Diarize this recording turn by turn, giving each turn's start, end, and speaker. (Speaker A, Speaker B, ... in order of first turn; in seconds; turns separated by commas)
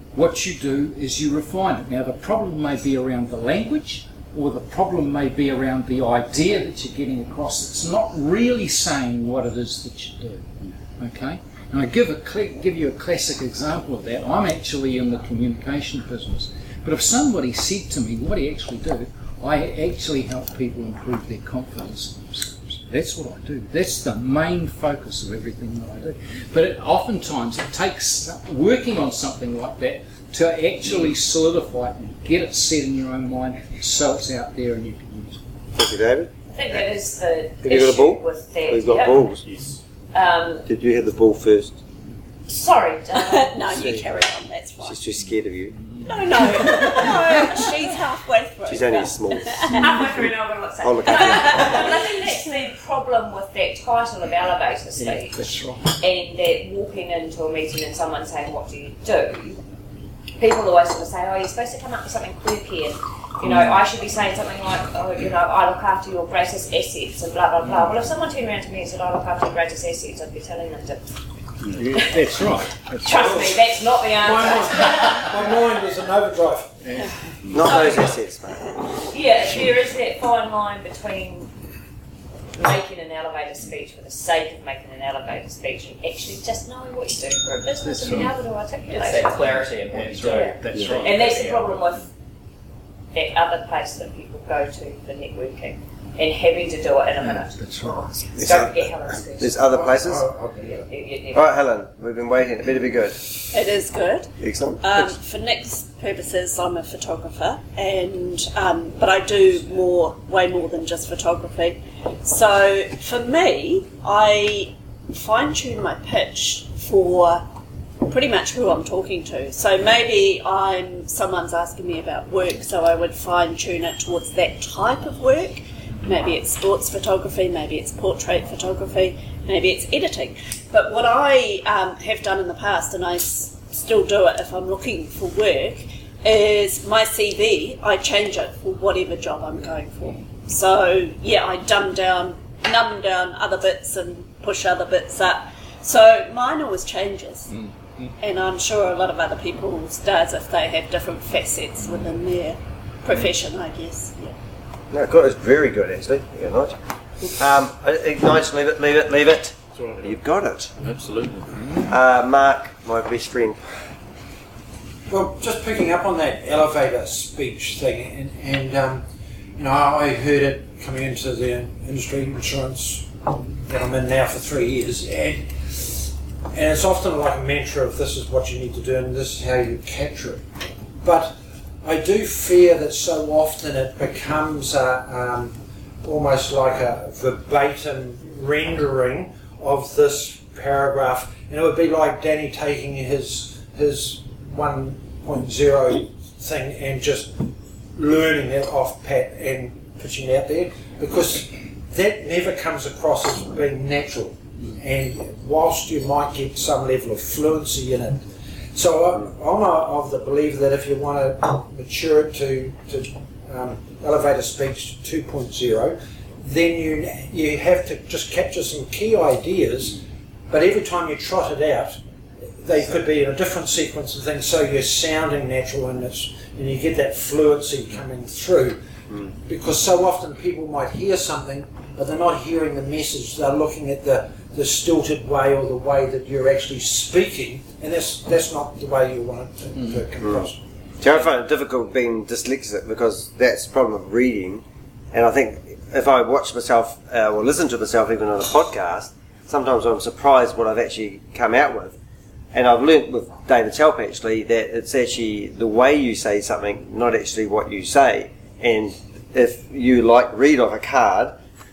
Speaker A: 0.1-35.4, Speaker B: 35.8-36.9, Speaker C: 36.5-39.4, Speaker B: 37.6-39.4, Speaker C: 40.1-40.6, Speaker B: 40.7-41.8, Speaker C: 42.5-44.0, Speaker D: 43.1-45.0, Speaker B: 43.8-44.0, Speaker B: 44.8-45.8, Speaker A: 45.8-47.5, Speaker D: 46.0-49.8, Speaker C: 46.6-47.0, Speaker B: 48.7-49.8, Speaker C: 49.7-59.6, Speaker B: 50.8-52.0, Speaker D: 51.2-52.0, Speaker A: 55.0-56.0, Speaker C: 60.4-71.1, Speaker A: 63.4-63.8, Speaker A: 67.6-68.0, Speaker E: 71.6-72.0, Speaker A: 71.7-73.6, Speaker C: 72.0-72.4, Speaker C: 73.0-75.7, Speaker F: 73.2-73.6, Speaker F: 74.1-76.8, Speaker E: 77.4-77.8, Speaker B: 77.5-78.8, Speaker C: 79.0-81.5, Speaker C: 82.6-89.7, Speaker A: 87.8-88.3, Speaker G: 88.9-91.6, Speaker A: 90.0-91.6, Speaker C: 90.2-92.1, Speaker E: 90.7-91.0, Speaker C: 93.1-97.6, Speaker A: 97.2-98.3, Speaker C: 98.3-99.7, Speaker B: 98.3-100.3, Speaker F: 99.7-100.8, Speaker C: 100.6-101.6, Speaker B: 101.3-103.3, Speaker D: 103.5-117.4, Speaker B: 104.4-105.1, Speaker D: 118.0-147.5, Speaker A: 147.5-148.1, Speaker D: 148.2-154.3, Speaker B: 154.9-156.8, Speaker B: 157.4-160.7, Speaker E: 159.8-160.1, Speaker E: 160.8-161.7, Speaker A: 161.6-161.9, Speaker B: 161.9-163.7, Speaker F: 165.1-169.1, Speaker F: 169.6-180.4, Speaker F: 181.0-208.2, Speaker F: 208.8-220.0, Speaker F: 220.5-222.0, Speaker F: 222.6-228.8, Speaker F: 229.5-240.6, Speaker B: 240.2-240.5, Speaker B: 241.0-251.9, Speaker B: 252.5-261.4